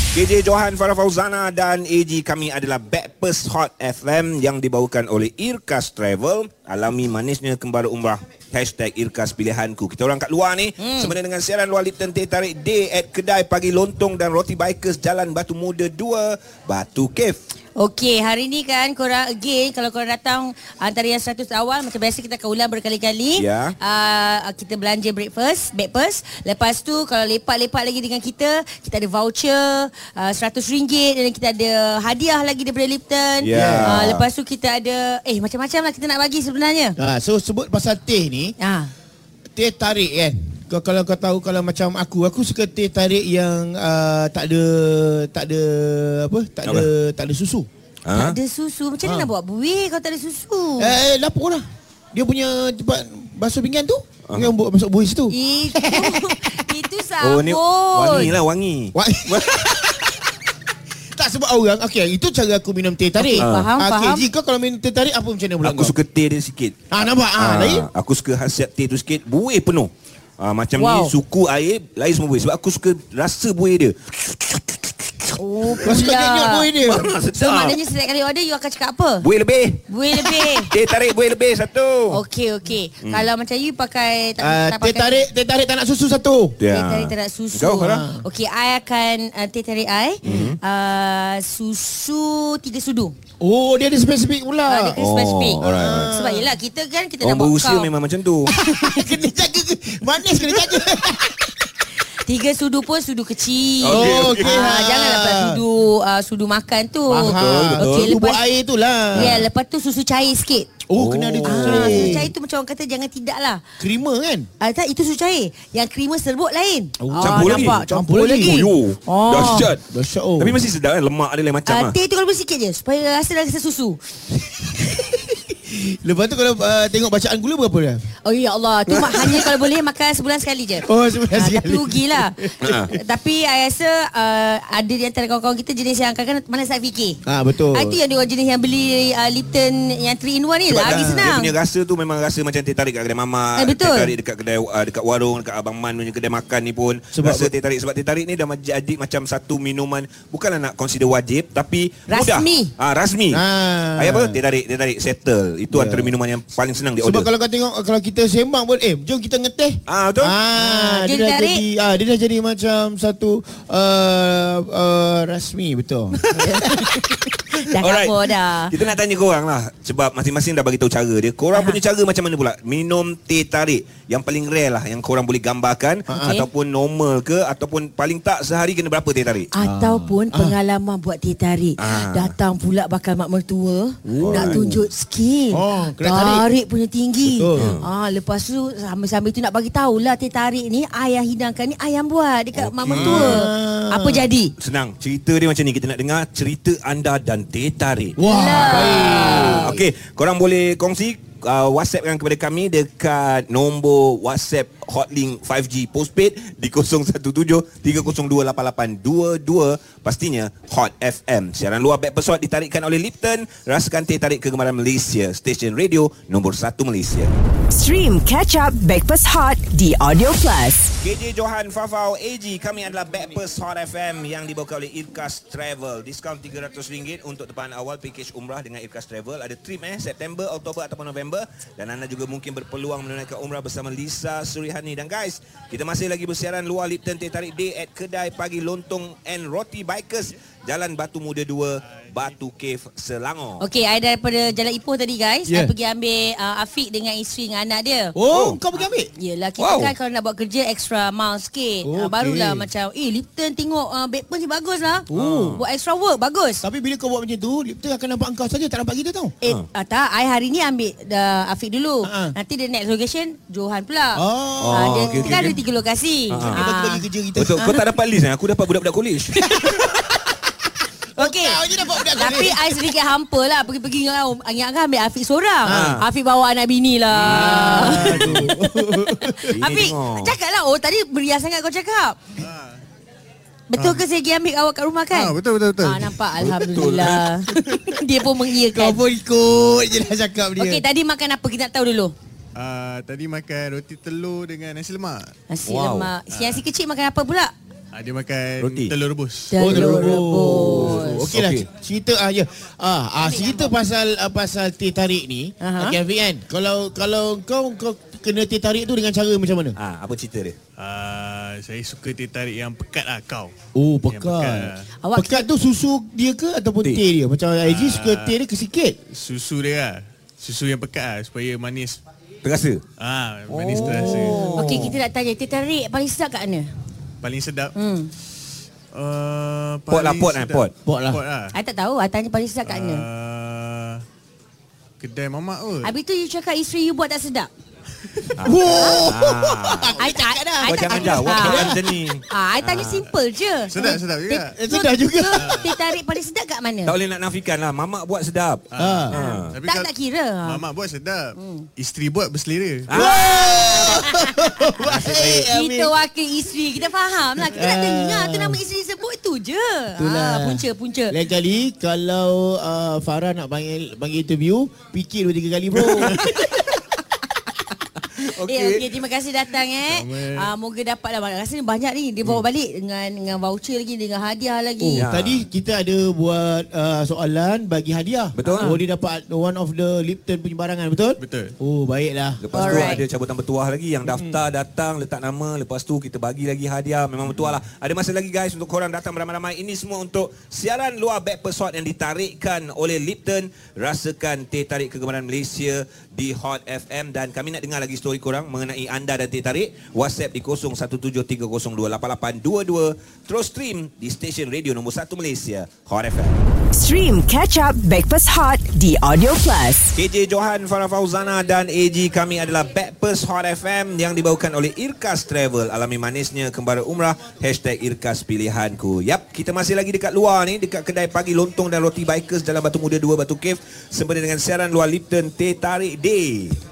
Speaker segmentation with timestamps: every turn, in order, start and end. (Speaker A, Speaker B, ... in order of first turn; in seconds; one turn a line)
Speaker A: 0.1-17.4
Speaker B: 10.8-11.1
Speaker B: 17.8-37.0
Speaker A: 23.4-23.8
Speaker A: 33.4-34.2
Speaker C: 33.5-34.0
Speaker C: 37.0-38.5
Speaker B: 38.6-38.9
Speaker C: 39.5-47.7
Speaker A: 48.0-48.4
Speaker B: 48.1-51.0
Speaker C: 49.0-49.3
Speaker C: 50.8-56.6
Speaker B: 55.3-58.4
Speaker A: 57.2-59.9
Speaker C: 59.0-59.9
Speaker C: 61.1-65.9
Speaker B: 63.2-64.2
Speaker A: 63.4-63.7
Speaker A: 65.6-74.9
Speaker C: 66.9-67.9
Speaker B: 70.8-71.2
Speaker B: 75.4-76.8
Speaker C: 75.8-77.1
Speaker A: 76.9-77.8
Speaker B: 77.3-79.3
Speaker A: 79.2-82.2
Speaker B: 79.9-80.7
Speaker B: 82.1-85.2
Speaker A: 83.0-83.3
Speaker C: 84.4-86.6
Speaker A: 86.6-88.0
Speaker B: 86.7-93.1
Speaker C: 87.9-88.2
Speaker A: 90.2-90.6
Speaker C: 93.4-95.0
Speaker B: 94.7-97.9
Speaker A: 95.0-96.1
Speaker C: 95.6-96.5
Speaker A: 97.2-98.5
Speaker C: 98.5-101.5
Speaker B: 102.3-108.4
Speaker A: 103.8-104.7
Speaker C: 103.9-105.6
Speaker C: 107.1-109.4
Speaker A: 107.3-108.1
Speaker A: 109.2-109.4
Speaker B: 109.2-110.7
Speaker C: 110.9-112.3
Speaker A: 111.0-112.2
Speaker B: 111.5-113.6
Speaker C: 113.8-114.5
Speaker B: 114.6-119.7
Speaker C: 117.0-118.6
Speaker A: 117.2-119.8
Speaker C: 119.9-120.6
Speaker A: 120.4-122.0
Speaker B: 121.7-124.0
Speaker C: 124.8-128.0
Speaker B: 128.2-137.2
Speaker C: 129.2-129.4
Speaker C: 130.8-132.9
Speaker A: 132.6-132.9
Speaker C: 137.3-138.0
Speaker B: 137.7-141.5
Speaker A: 140.7-153.4
Speaker C: 140.9-141.3
Speaker B: 143.6-144.1
Speaker C: 147.1-147.5
Speaker B: 152.1-152.7
Speaker C: 153.3-154.4
Speaker A: 154.0-157.3
Speaker C: 155.7-156.2
Speaker C: 157.0-167.2
Speaker A: 159.9-160.3
Speaker B: 160.6-161.7
Speaker B: 166.4-166.7
Speaker B: 167.7-168.7
Speaker A: 167.8-179.5
Speaker B: 171.5-171.8
Speaker C: 176.1-176.4
Speaker B: 176.1-176.5
Speaker B: 179.5-194.5
Speaker C: 179.6-180.6
Speaker A: 181.8-182.3
Speaker C: 184.1-184.8
Speaker A: 184.2-184.6
Speaker C: 185.5-186.5
Speaker C: 187.2-187.8
Speaker A: 187.6-187.8
Speaker A: 192.5-193.4
Speaker C: 193.0-194.3
Speaker A: 194.6-217.4
Speaker C: 198.2-199.8
Speaker B: 198.2-199.7
Speaker D: 217.8-220.9
Speaker A: 221.0-243.6
Speaker B: 243.6-248.2
Speaker C: 245.5-245.7
Speaker C: 248.2-249.1
Speaker A: 248.3-248.6
Speaker B: 249.2-256.6
Speaker A: 249.6-249.9
Speaker C: 251.8-252.7
Speaker C: 255.1-255.6
Speaker A: 255.1-255.6
Speaker C: 256.6-259.4
Speaker B: 259.4-267.0
Speaker C: 262.0-262.4
Speaker C: 264.1-265.6
Speaker A: 264.6-265.6
Speaker A: 266.3-266.6
Speaker C: 266.4-267.6
Speaker A: 267.4-269.8
Speaker C: 269.4-270.4
Speaker C: 271.2-272.7
Speaker B: 271.2-271.6
Speaker B: 272.1-278.5
Speaker C: 275.6-276.0
Speaker A: 275.7-276.1
Speaker A: 277.2-278.5
Speaker C: 277.3-279.5
Speaker E: 277.6-278.1
Speaker B: 279.3-282.2
Speaker A: 279.5-280.3
Speaker E: 282.4-282.8
Speaker B: 283.7-289.0
Speaker E: 283.8-284.0
Speaker E: 285.1-286.2
Speaker A: 286.4-287.3
Speaker C: 287.6-287.9
Speaker C: 288.7-290.9
Speaker B: 290.6-292.1
Speaker E: 292.6-295.3
Speaker B: 295.5-297.5
Speaker A: 295.7-296.1
Speaker E: 296.3-296.6
Speaker E: 297.9-299.6
Speaker A: 298.6-298.9
Speaker B: 299.5-301.3
Speaker C: 299.6-309.8
Speaker A: 299.7-301.7
Speaker B: 303.2-303.8
Speaker B: 305.6-306.0
Speaker A: 309.8-310.6
Speaker E: 310.8-313.5
Speaker C: 313.8-319.0
Speaker E: 314.1-314.9
Speaker B: 315.0-315.4
Speaker E: 317.6-318.4
Speaker E: 319.1-322.0
Speaker A: 322.4-322.8
Speaker E: 323.0-324.9
Speaker A: 323.5-325.0
Speaker B: 323.8-326.7
Speaker E: 327.2-327.7
Speaker B: 327.8-328.1
Speaker E: 328.9-331.6
Speaker A: 329.9-330.7
Speaker C: 330.9-331.2
Speaker B: 331.5-333.1
Speaker E: 332.6-334.0
Speaker E: 335.0-335.9
Speaker B: 335.8-337.5
Speaker C: 338.2-341.8
Speaker A: 338.4-339.9
Speaker B: 338.8-339.1
Speaker B: 340.0-341.7
Speaker A: 340.7-343.1
Speaker B: 342.3-346.9
Speaker E: 342.8-343.1
Speaker E: 343.7-344.5
Speaker C: 344.5-345.8
Speaker E: 345.4-345.7
Speaker A: 346.9-349.6
Speaker E: 348.7-352.9
Speaker C: 348.8-349.2
Speaker B: 349.1-350.6
Speaker B: 351.4-351.7
Speaker A: 352.9-354.1
Speaker C: 352.9-355.9
Speaker B: 353.0-354.0
Speaker A: 354.8-355.5
Speaker B: 355.5-361.2
Speaker C: 357.4-358.6
Speaker C: 360.0-366.4
Speaker A: 368.2-368.8
Speaker B: 368.4-375.1
Speaker E: 369.9-370.5
Speaker C: 374.9-382.9
Speaker A: 374.9-375.5
Speaker A: 378.4-378.8
Speaker B: 378.5-378.8
Speaker E: 381.2-381.5
Speaker A: 382.4-406.4
Speaker B: 382.5-383.0
Speaker C: 384.0-384.4
Speaker D: 406.8-409.9
Speaker A: 410.0-426.6